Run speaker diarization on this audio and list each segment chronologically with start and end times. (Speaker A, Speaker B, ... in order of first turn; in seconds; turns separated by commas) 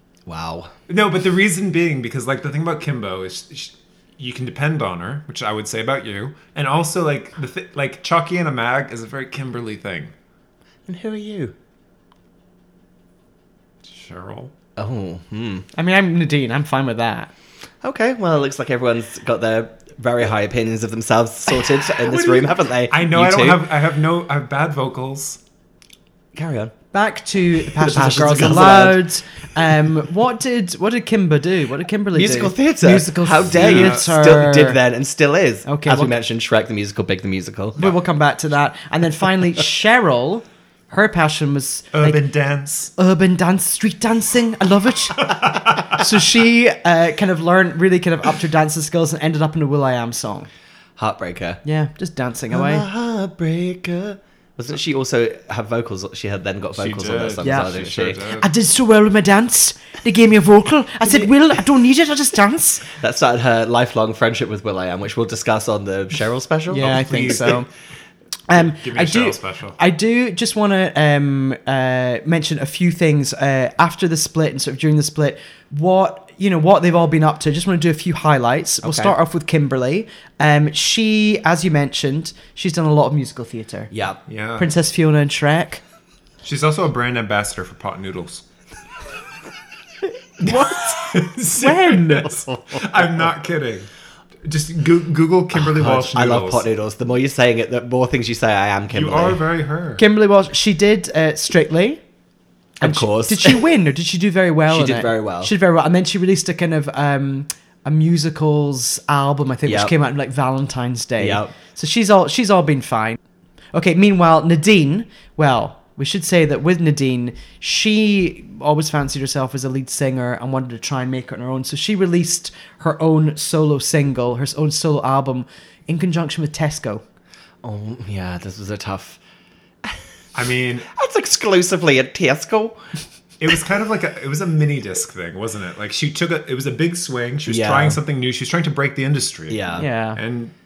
Speaker A: 0.2-0.7, Speaker B: 0.9-10.1, Speaker A: 10.9-11.5, Speaker B: 13.8-14.5, Speaker A: 14.8-15.7, Speaker C: 15.7-17.3, Speaker A: 17.8-23.7, Speaker B: 22.2-25.4, Speaker A: 26.3-26.7, Speaker C: 26.9-34.8, Speaker A: 27.8-29.0, Speaker A: 32.1-37.9, Speaker B: 33.4-34.1, Speaker C: 35.6-36.1, Speaker C: 37.8-42.2, Speaker B: 41.9-42.9, Speaker C: 43.0-50.5, Speaker B: 45.3-45.9, Speaker A: 51.0-51.6, Speaker C: 51.6-52.9, Speaker A: 52.5-58.2, Speaker B: 56.8-58.5, Speaker C: 57.4-57.7, Speaker C: 58.4-62.9, Speaker A: 61.0-61.3, Speaker A: 62.9-67.4, Speaker C: 66.7-67.7, Speaker B: 66.8-67.7, Speaker C: 68.5-83.9, Speaker B: 68.5-69.8, Speaker A: 78.8-79.2, Speaker A: 83.9-84.2, Speaker B: 84.3-84.8, Speaker C: 84.6-85.8, Speaker B: 86.4-88.4, Speaker C: 90.4-91.0, Speaker B: 90.5-93.9, Speaker C: 91.6-92.2, Speaker B: 94.4-96.7, Speaker A: 95.5-99.4, Speaker B: 98.9-100.0, Speaker C: 100.0-102.0, Speaker A: 102.8-103.7, Speaker C: 102.8-113.2, Speaker A: 104.7-105.5, Speaker A: 109.6-109.9, Speaker A: 111.2-111.5, Speaker C: 113.7-127.0, Speaker A: 127.6-129.2, Speaker B: 130.3-130.9, Speaker A: 130.9-132.8, Speaker B: 133.4-140.5, Speaker A: 137.4-138.0, Speaker A: 139.5-139.9, Speaker C: 139.8-140.2